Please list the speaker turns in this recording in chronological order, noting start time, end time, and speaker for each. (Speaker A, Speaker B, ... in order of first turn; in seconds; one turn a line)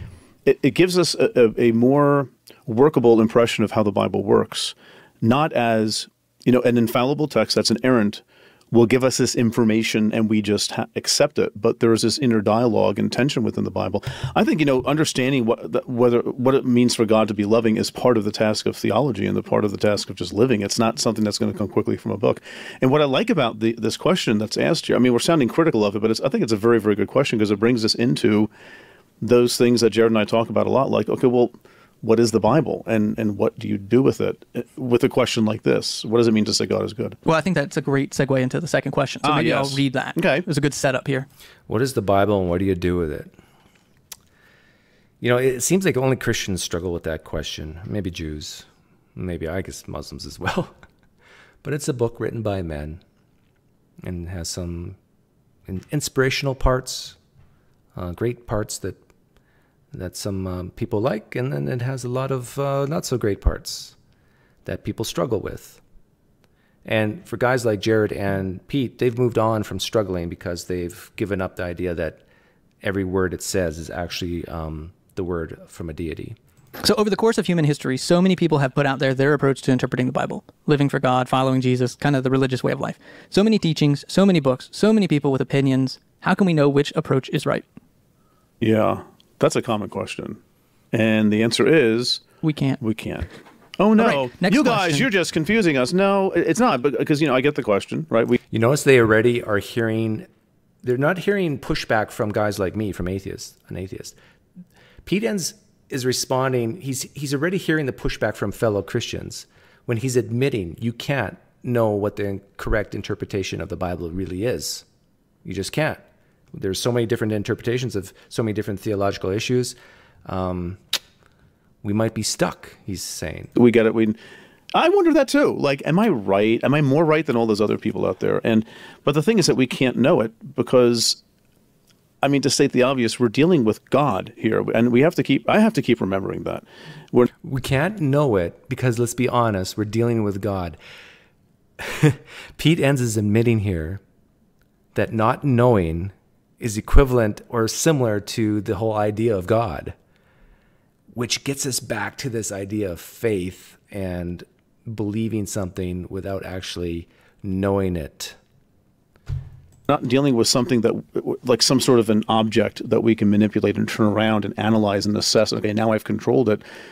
Speaker A: 0.5-28.5
Speaker A: 29.2-37.2
Speaker B: 37.2-41.3
Speaker A: 39.2-40.5
Speaker C: 41.7-43.3
Speaker C: 45.2-50.7
Speaker C: 51.6-53.0
Speaker C: 54.0-55.0
Speaker C: 55.7-57.2
Speaker C: 58.0-59.0
Speaker C: 59.9-64.0
Speaker C: 64.7-65.8
Speaker C: 66.8-72.2
Speaker C: 72.8-76.4
Speaker B: 76.8-87.7
Speaker A: 88.6-90.4
Speaker A: 90.9-92.2
Speaker B: 92.4-92.8
Speaker A: 92.8-98.4
Speaker B: 94.0-95.1
Speaker C: 98.5-100.3
Speaker C: 100.8-104.2
Speaker C: 105.0-114.9
Speaker C: 115.4-116.0
Speaker C: 116.5-120.8
Speaker C: 121.8-123.5
Speaker A: 123.5-124.2
Speaker A: 124.7-131.2
Speaker A: 132.2-137.3
Speaker C: 137.4-140.8
Speaker C: 141.8-144.0
Speaker C: 144.9-150.0
Speaker C: 151.1-158.4
Speaker A: 159.9-166.6